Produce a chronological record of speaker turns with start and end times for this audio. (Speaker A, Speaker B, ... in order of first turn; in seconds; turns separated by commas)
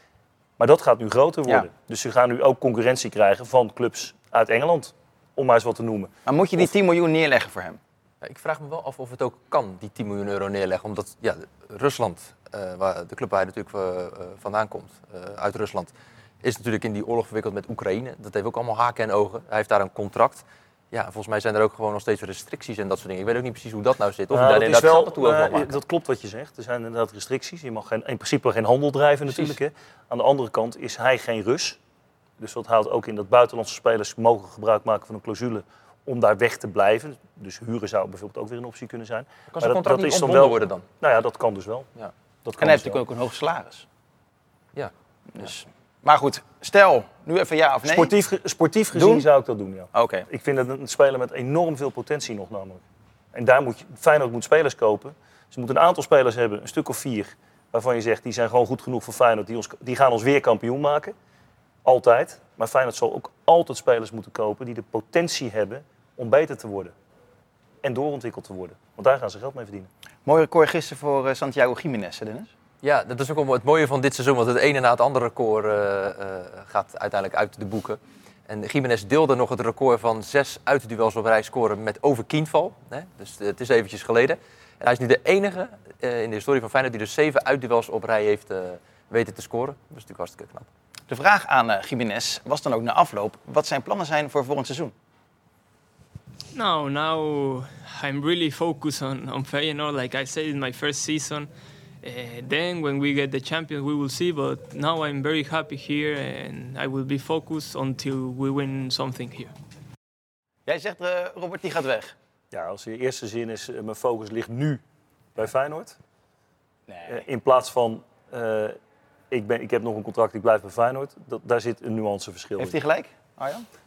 Speaker A: 0.6-6.1, Speaker B: 6.2-7.8, Speaker C: 8.2-25.8, Speaker A: 24.3-31.8, Speaker C: 29.3-29.6, Speaker A: 32.4-41.9, Speaker C: 39.5-40.8, Speaker A: 42.4-43.0, Speaker B: 42.6-43.9, Speaker B: 45.3-48.1, Speaker A: 47.8-52.8, Speaker B: 48.9-49.3, Speaker B: 49.9-50.2, Speaker A: 53.3-61.1, Speaker A: 61.8-66.9, Speaker A: 67.8-69.9, Speaker B: 70.2-72.5, Speaker C: 72.8-90.7, Speaker B: 91.1-94.9, Speaker D: 96.5-101.5, Speaker D: 102.0-109.5, Speaker B: 110.7-112.1, Speaker A: 112.5-114.8, Speaker A: 115.3-116.0, Speaker B: 116.9-117.2, Speaker A: 117.1-118.8, Speaker A: 119.3-122.8, Speaker B: 122.6-123.7